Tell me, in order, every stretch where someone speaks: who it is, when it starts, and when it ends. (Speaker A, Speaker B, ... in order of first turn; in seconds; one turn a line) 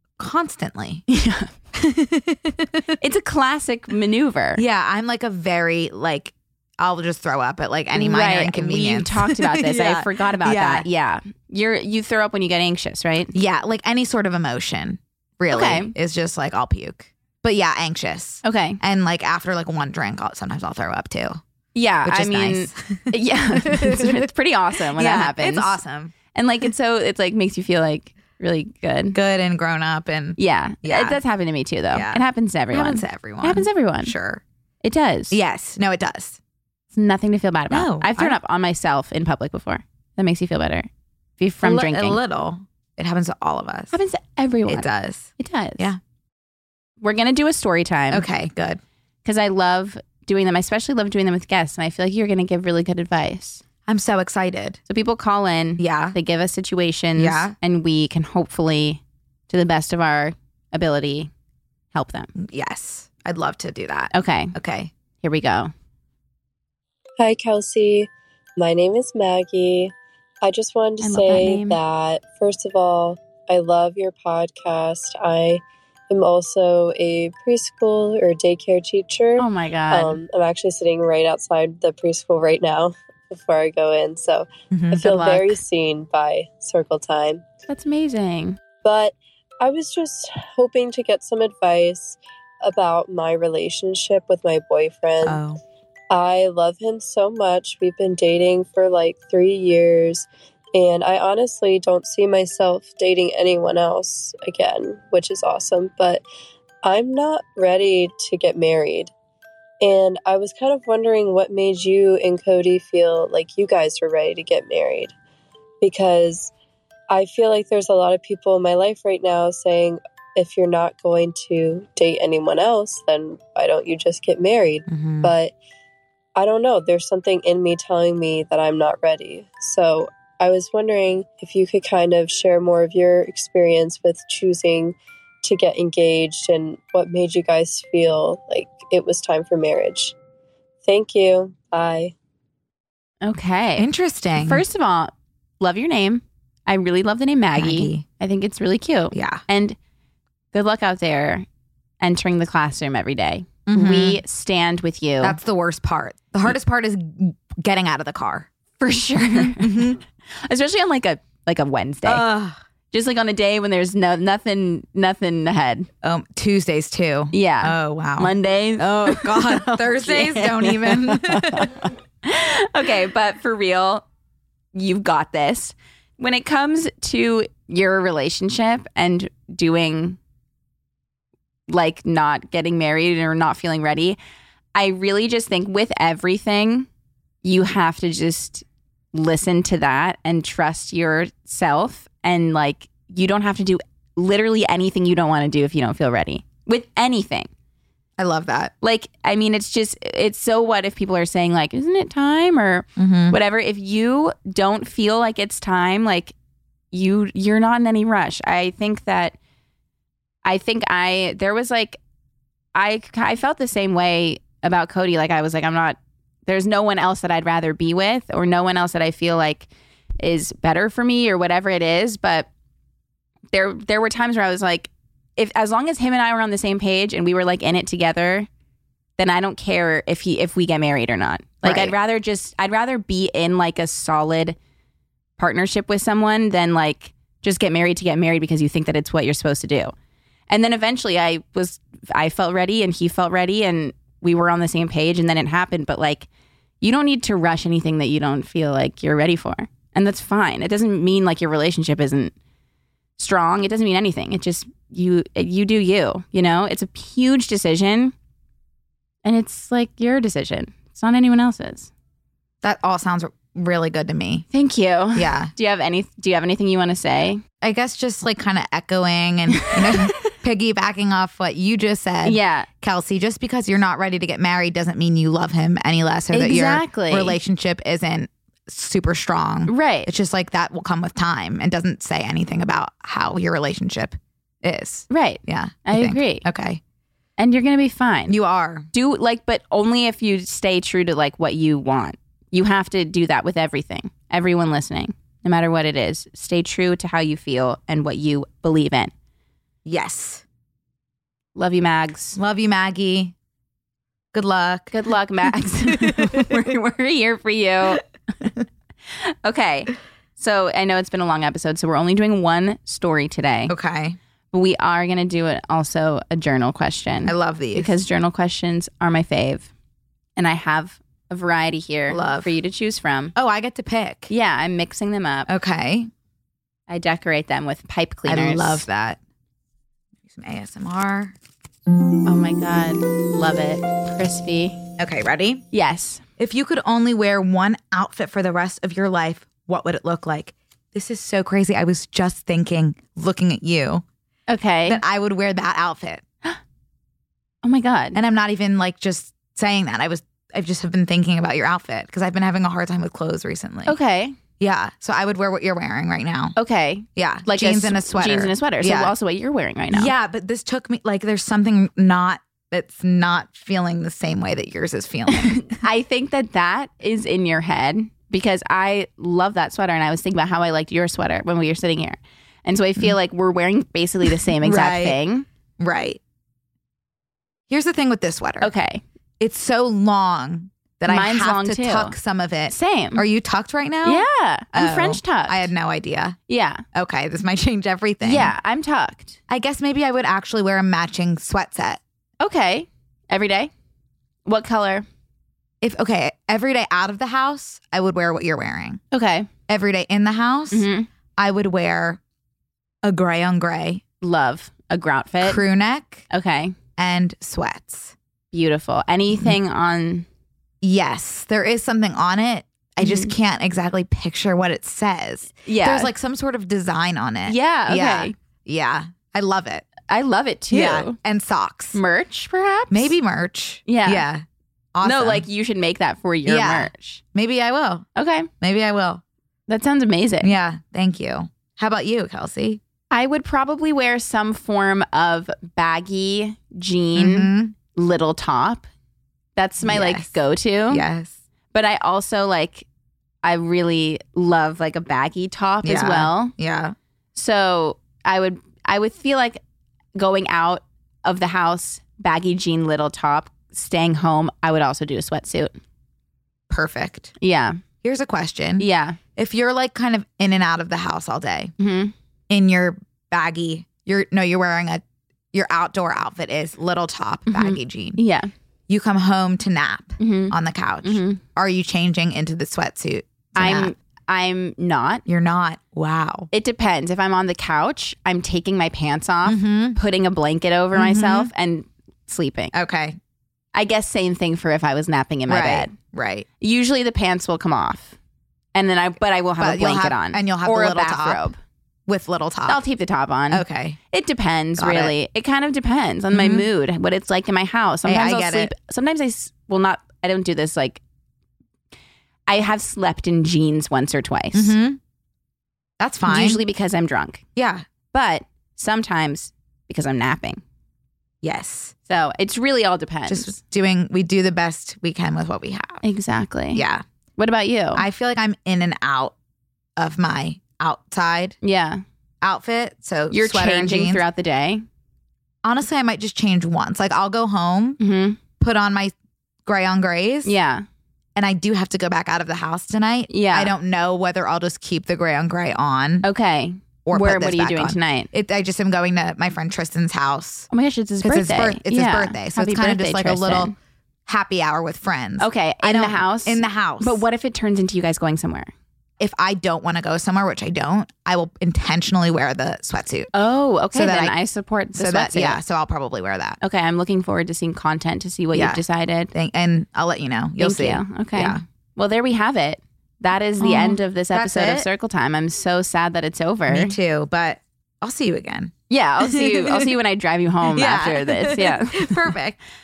Speaker A: 0.2-1.0
Speaker B: 1.1-1.5
Speaker A: 1.7-2.8
Speaker B: 3.0-4.6
Speaker A: 4.5-10.8
Speaker B: 7.9-13.3
Speaker A: 13.3-21.4
Speaker B: 15.5-15.9
Speaker B: 18.4-18.8
Speaker B: 21.7-25.8
Speaker A: 22.0-24.3
Speaker A: 24.9-26.1
Speaker B: 26.3-29.2
Speaker A: 29.1-31.2
Speaker B: 30.4-34.1
Speaker A: 31.9-34.4
Speaker B: 34.8-35.4
Speaker A: 35.3-36.4
Speaker B: 36.9-40.9
Speaker A: 37.7-38.4
Speaker B: 41.4-42.2
Speaker A: 41.6-44.0
Speaker B: 43.9-44.9
Speaker A: 44.7-46.0
Speaker B: 45.4-45.9
Speaker B: 47.0-48.2
Speaker A: 48.1-48.8
Speaker B: 49.2-53.6
Speaker A: 53.9-54.8
Speaker B: 54.9-61.3
Speaker A: 55.8-56.1
Speaker A: 57.1-57.5
Speaker B: 61.9-62.3
Speaker A: 62.4-64.9
Speaker B: 64.1-64.5
Speaker B: 65.2-65.7
Speaker C: 67.2-87.4
Speaker B: 71.0-71.8
Speaker B: 79.4-80.2
Speaker A: 84.7-85.2
Speaker B: 85.0-85.5
Speaker B: 87.7-88.6
Speaker C: 88.8-95.4
Speaker A: 95.2-95.6
Speaker C: 96.1-106.2
Speaker C: 106.8-109.1
Speaker C: 109.8-115.1
Speaker C: 115.8-116.5
Speaker C: 117.1-125.5
Speaker A: 124.9-125.3
Speaker C: 126.3-140.1
Speaker C: 140.8-142.1
Speaker B: 143.2-149.8
Speaker A: 143.8-144.6
Speaker A: 147.6-148.0
Speaker A: 149.1-149.4
Speaker B: 150.5-151.4
Speaker B: 152.0-155.4
Speaker A: 153.7-154.2
Speaker A: 155.2-158.5
Speaker B: 158.8-162.3
Speaker A: 159.3-160.0
Speaker A: 162.0-162.6
Speaker B: 162.9-165.9
Speaker A: 166.0-171.8
Speaker B: 167.3-174.0
Speaker B: 174.7-180.2
Speaker B: 181.7-184.2
Speaker B: 184.7-186.9
Speaker B: 187.4-197.5
Speaker A: 198.2-198.7
Speaker B: 198.8-206.3
Speaker A: 203.0-203.4
Speaker B: 206.9-209.3
Speaker B: 210.4-212.0
Speaker B: 212.7-219.7
Speaker B: 220.2-222.5
Speaker B: 223.5-228.5
Speaker B: 229.2-234.6
Speaker A: 231.6-231.9
Speaker B: 235.4-239.9
Speaker B: 240.5-246.3
Speaker B: 246.8-252.3
Speaker B: 253.2-258.1
Speaker B: 259.2-261.9
Speaker A: 262.6-264.4
Speaker B: 264.5-267.4
Speaker A: 265.1-265.5
Speaker A: 267.6-286.8
Speaker B: 269.6-270.1
Speaker B: 272.2-272.7
Speaker B: 276.3-277.4
Speaker B: 279.7-280.1
Speaker B: 285.1-286.4
Speaker B: 287.4-288.4
Speaker A: 288.3-288.9
Speaker B: 288.9-299.1
Speaker A: 299.9-300.4
Speaker B: 301.6-302.4
Speaker A: 302.4-303.3
Speaker A: 304.3-304.9
Speaker B: 304.9-308.0
Speaker A: 305.9-306.5
Speaker B: 309.2-313.7
Speaker A: 313.7-314.2
Speaker B: 314.5-319.7
Speaker A: 317.2-317.9
Speaker B: 320.4-323.3
Speaker A: 322.1-322.5
Speaker A: 323.3-324.3
Speaker B: 324.3-325.5
Speaker A: 325.5-326.1
Speaker B: 326.9-328.9
Speaker A: 328.3-329.2
Speaker A: 330.3-331.3
Speaker B: 332.2-334.8
Speaker A: 335.0-335.6
Speaker B: 335.7-336.2
Speaker A: 336.4-344.0
Speaker B: 344.5-345.0
Speaker A: 344.8-346.2
Speaker B: 347.6-348.2
Speaker A: 348.1-353.9
Speaker B: 353.9-354.4
Speaker A: 354.6-356.5
Speaker B: 356.6-360.1
Speaker A: 357.1-359.1
Speaker A: 359.9-365.8
Speaker B: 365.3-375.5
Speaker A: 374.4-375.2
Speaker A: 375.8-376.2
Speaker A: 377.7-378.7
Speaker B: 378.6-379.0
Speaker A: 379.4-386.4
Speaker B: 381.1-382.1
Speaker B: 382.7-383.2
Speaker B: 384.0-385.7
Speaker B: 386.5-386.8
Speaker A: 386.9-388.5
Speaker B: 388.2-389.4
Speaker A: 389.5-392.0
Speaker B: 392.4-393.7
Speaker B: 394.4-395.1
Speaker A: 395.8-399.0
Speaker B: 399.1-399.5
Speaker A: 399.7-402.2
Speaker B: 400.7-401.1
Speaker A: 403.0-404.0
Speaker B: 404.2-405.6
Speaker A: 405.4-406.2
Speaker B: 406.3-406.7
Speaker A: 407.0-408.1
Speaker B: 408.5-410.2
Speaker A: 410.8-419.9
Speaker B: 413.0-413.3
Speaker B: 415.6-416.1
Speaker B: 417.5-418.3
Speaker B: 420.1-421.2
Speaker A: 420.7-422.0
Speaker B: 421.9-423.1
Speaker A: 422.9-425.4
Speaker B: 423.9-424.2
Speaker B: 425.0-427.2
Speaker A: 426.4-428.0
Speaker B: 428.1-428.5
Speaker A: 428.6-429.2
Speaker B: 429.7-430.5
Speaker A: 430.4-432.8
Speaker B: 433.1-438.8
Speaker A: 437.1-437.7
Speaker B: 439.6-441.0
Speaker A: 439.8-440.4
Speaker A: 440.9-441.3
Speaker B: 441.7-442.9
Speaker B: 443.4-446.5
Speaker A: 445.8-446.9
Speaker B: 447.3-449.6
Speaker B: 450.1-455.8
Speaker A: 456.7-457.3
Speaker B: 457.4-457.8
Speaker A: 458.0-461.7
Speaker B: 458.8-459.2
Speaker B: 461.8-462.1
Speaker A: 462.5-468.2
Speaker B: 467.5-468.5
Speaker A: 468.9-473.9
Speaker B: 470.2-471.4
Speaker B: 473.6-475.2
Speaker A: 475.2-476.5
Speaker B: 476.5-482.7
Speaker A: 479.4-480.0
Speaker A: 480.9-481.5
Speaker A: 482.7-483.2
Speaker B: 483.7-485.9
Speaker A: 485.5-486.4
Speaker B: 486.6-488.1
Speaker B: 488.7-491.6
Speaker A: 489.6-491.5
Speaker A: 492.1-492.8
Speaker B: 492.7-501.0
Speaker A: 493.5-494.0
Speaker A: 494.8-495.1
Speaker A: 496.3-496.7
Speaker A: 498.0-498.7
Speaker B: 502.5-504.8
Speaker A: 504.5-505.0
Speaker A: 506.0-506.6
Speaker B: 506.2-507.4
Speaker A: 507.6-507.8
Speaker B: 508.1-510.6
Speaker A: 511.4-511.9
Speaker B: 512.1-513.5
Speaker A: 513.3-516.0
Speaker B: 516.0-516.8
Speaker A: 516.7-517.0
Speaker B: 517.4-518.0
Speaker A: 517.9-519.3
Speaker A: 520.0-521.5
Speaker B: 521.6-522.0
Speaker A: 522.4-524.2
Speaker B: 523.3-524.8
Speaker A: 525.6-528.0
Speaker B: 528.0-528.4
Speaker A: 528.6-529.1
Speaker A: 529.6-530.5
Speaker B: 530.4-530.8
Speaker A: 531.4-536.2
Speaker B: 533.3-533.7
Speaker B: 536.2-538.3
Speaker A: 537.0-540.7
Speaker B: 540.7-543.7
Speaker A: 541.2-543.7
Speaker A: 544.2-547.2
Speaker B: 545.4-548.7
Speaker A: 549.2-553.3
Speaker B: 553.3-555.6
Speaker A: 553.9-554.4
Speaker A: 554.9-556.6
Speaker B: 556.6-559.3
Speaker A: 558.5-561.6
Speaker B: 560.6-567.0
Speaker A: 563.6-564.9
Speaker A: 566.7-569.9
Speaker B: 568.9-572.3
Speaker A: 570.7-572.6